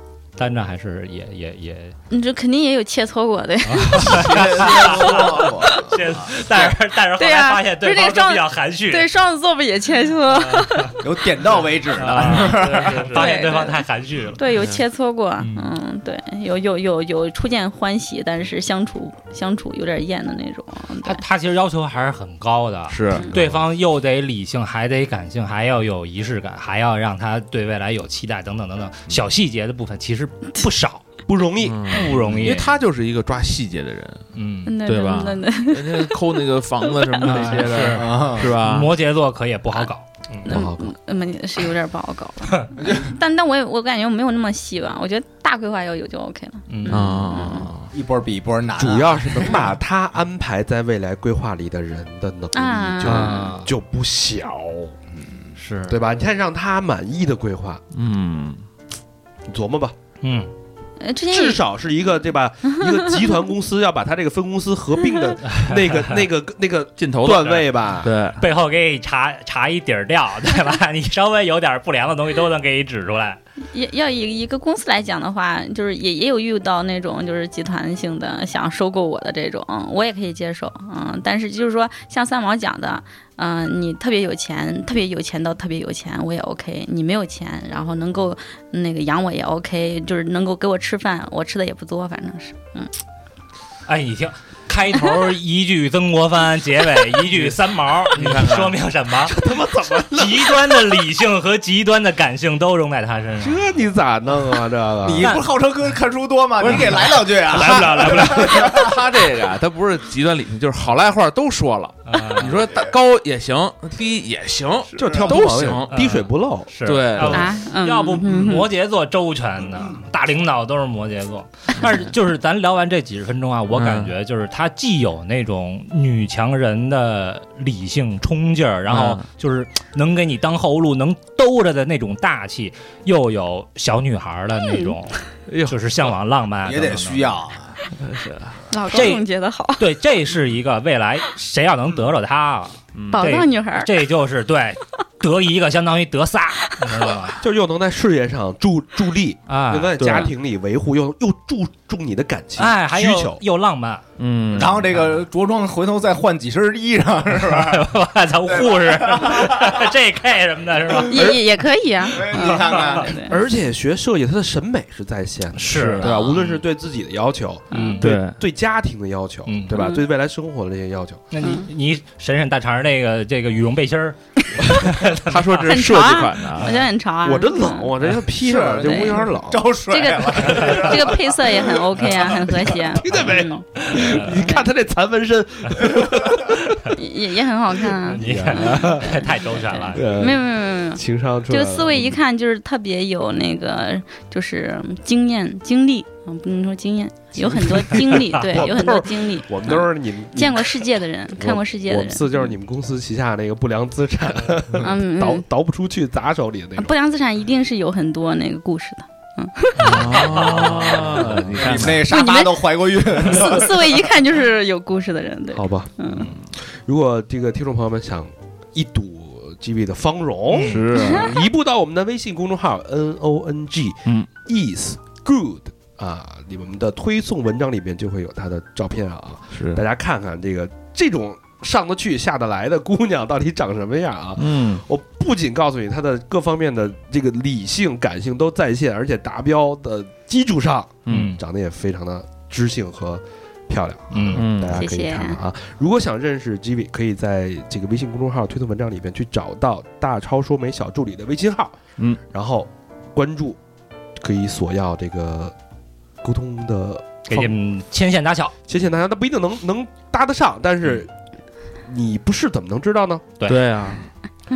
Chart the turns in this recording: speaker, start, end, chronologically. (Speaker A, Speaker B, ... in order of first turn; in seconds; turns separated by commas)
Speaker A: 0.4-1.9, Speaker B: 2.1-11.0, Speaker A: 3.7-9.1, Speaker C: 4.0-6.3, Speaker A: 10.3-10.9, Speaker C: 11.0-13.3, Speaker A: 11.9-14.4, Speaker B: 13.1-21.2, Speaker D: 14.5-14.8, Speaker A: 15.4-15.7, Speaker A: 21.0-31.0, Speaker D: 22.9-23.6, Speaker E: 31.3-32.0, Speaker D: 31.6-34.2, Speaker A: 31.9-32.8, Speaker A: 34.3-34.7, Speaker B: 34.6-37.6, Speaker D: 34.8-38.9, Speaker A: 37.4-40.6, Speaker C: 37.8-38.6, Speaker E: 40.4-40.9, Speaker B: 40.4-47.7, Speaker C: 42.8-43.2, Speaker A: 46.7-47.2, Speaker D: 46.9-47.9, Speaker C: 47.9-49.7, Speaker E: 48.8-54.9, Speaker B: 52.5-53.5, Speaker A: 53.0-53.7, Speaker C: 55.1-55.5, Speaker A: 55.5-56.0, Speaker E: 55.9-57.8, Speaker D: 57.9-58.6, Speaker E: 59.5-60.0, Speaker A: 60.2-60.5, Speaker B: 61.0-61.6, Speaker E: 61.3-68.1, Speaker B: 62.7-63.2, Speaker D: 67.0-68.4, Speaker A: 68.4-73.4, Speaker B: 73.7-92.9, Speaker A: 93.9-99.3, Speaker D: 98.1-98.8, Speaker E: 99.2-100.9, Speaker A: 100.1-103.6, Speaker E: 103.4-105.3, Speaker C: 105.0-108.9, Speaker A: 105.2-105.5, Speaker E: 106.6-108.9, Speaker D: 106.6-107.0, Speaker D: 107.6-116.0, Speaker A: 112.0-112.7, Speaker E: 115.0-116.7, Speaker A: 115.9-137.4, Speaker D: 116.8-117.5, Speaker B: 117.3-118.7, Speaker D: 123.7-124.1, Speaker D: 128.9-129.2, Speaker B: 134.5-134.9, Speaker D: 135.5-135.8, Speaker C: 136.6-137.8, Speaker D: 137.9-138.6, Speaker B: 138.7-139.9, Speaker A: 138.9-139.2, Speaker A: 139.8-147.4, Speaker D: 142.9-143.3, Speaker B: 143.1-144.0, Speaker B: 146.7-147.1, Speaker E: 147.4-153.4, Speaker A: 149.5-150.3, Speaker A: 152.6-154.0, Speaker D: 154.2-154.9, Speaker C: 154.5-159.8, Speaker A: 157.5-161.4, Speaker C: 161.1-161.4, Speaker B: 161.1-163.4, Speaker C: 162.0-163.2, Speaker A: 162.4-162.9, Speaker E: 163.3-171.2, Speaker A: 165.6-166.5, Speaker D: 165.7-166.4, Speaker B: 167.7-168.0, Speaker A: 167.7-168.1, Speaker D: 168.0-168.4, Speaker A: 169.4-169.8, Speaker B: 169.7-170.0, Speaker A: 171.3-175.3, Speaker B: 171.4-171.7, Speaker B: 174.5-174.8, Speaker D: 175.1-176.9, Speaker B: 175.6-177.9, Speaker E: 177.2-179.7, Speaker C: 178.3-181.8, Speaker B: 178.8-179.3, Speaker B: 179.9-184.7, Speaker E: 182.9-186.8, Speaker A: 183.9-184.4, Speaker B: 186.9-202.5, Speaker A: 188.1-190.3, Speaker E: 188.2-189.2, Speaker E: 189.9-192.2, Speaker C: 197.5-198.0, Speaker E: 198.3-206.9, Speaker B: 204.8-205.5, Speaker B: 206.8-211.0, Speaker D: 209.8-212.2, Speaker C: 209.9-214.1, Speaker A: 210.2-211.5, Speaker B: 211.9-216.3, Speaker E: 215.5-251.8, Speaker A: 220.5-220.8, Speaker D: 220.6-221.5, Speaker B: 221.0-221.2, Speaker D: 229.5-229.8, Speaker D: 234.4-234.8, Speaker D: 241.1-241.3, Speaker A: 241.1-241.4, Speaker A: 244.1-244.4, Speaker D: 244.3-244.8, Speaker B: 244.7-245.4, Speaker E: 252.3-253.6, Speaker E: 254.2-255.5, Speaker E: 256.2-257.2, Speaker A: 257.3-258.5, Speaker E: 258.7-261.1, Speaker E: 261.8-263.3, Speaker D: 263.5-264.1